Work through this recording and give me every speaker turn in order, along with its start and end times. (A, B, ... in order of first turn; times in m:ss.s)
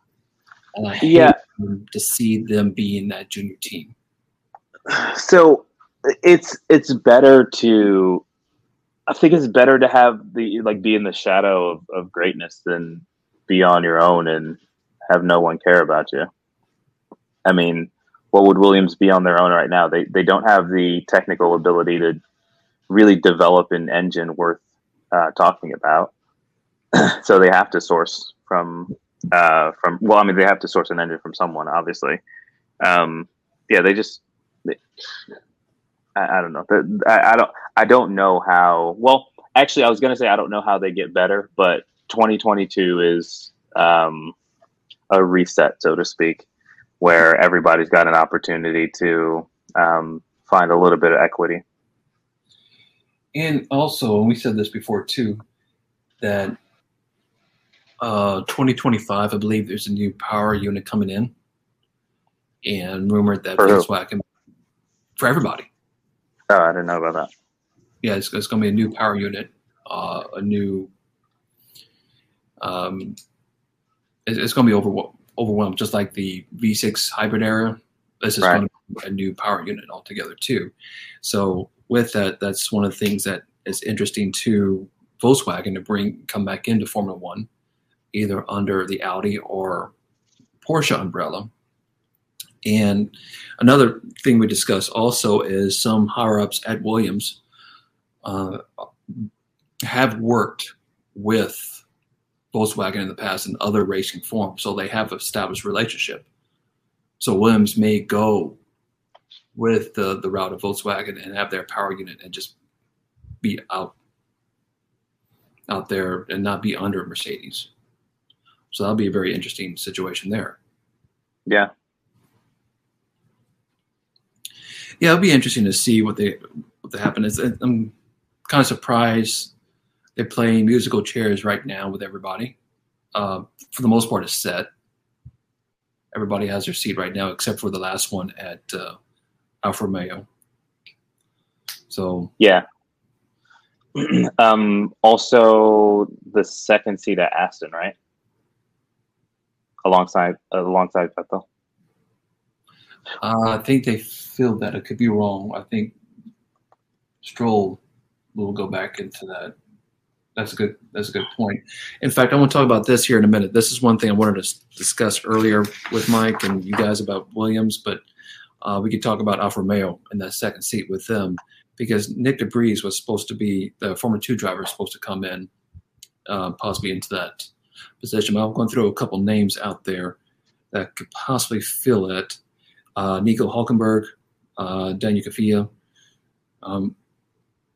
0:00.8-0:03.9 A
0:01.0-0:01.4 B
0:04.9-0:08.2 B
0:09.1-0:14.6 B
0:15.1-0:16.3 B
0:17.4-0:22.2 B
0:22.9-0:26.1 B
0:26.9-0:32.2 B
0:32.8-0:34.8 B
0:36.2-0:44.3 B
0:45.1-0:46.5 B
0:47.0-0:51.6 B
0:53.3-0:55.4 A
0:56.2-0:56.6 A
0:58.0-1:01.3 A
1:02.6-1:04.2 A
1:03.6-1:03.9 B
1:05.2-1:05.7 A
1:06.5-1:07.3 B
1:08.0-1:10.9 A
1:12.6-1:13.2 A
1:14.3-1:27.5 A
1:28.1-1:29.9 A
1:30.6-1:31.5 A
1:32.6-1:37.4 A
1:38.2-1:39.3 A
1:39.8-1:41.8 A
1:42.5-1:46.3 A
1:47.2-1:48.6 A
1:49.5-1:52.5 A
1:53.4-1:53.9 A
1:55.7-1:57.7 A
1:58.7-2:00.6 A
2:05.0-2:07.9 A
2:08.5-2:09.5 A
2:10.2-2:12.6 A
2:13.2-2:14.7 A
2:16.1-2:19.0 A
2:19.6-2:20.3 A
2:21.9-2:22.3 A
2:22.4-2:22.6 B
2:24.0-2:28.0 B
2:29.8-2:31.4 B
2:33.2-2:36.0 A
2:37.2-2:37.8 A
2:38.4-2:39.6 A
2:40.4-2:48.0 A
2:48.6-2:55.5 A
2:56.3-3:00.2 A
3:00.7-3:02.4 A
3:03.0-3:05.7 A
3:06.6-3:07.0 A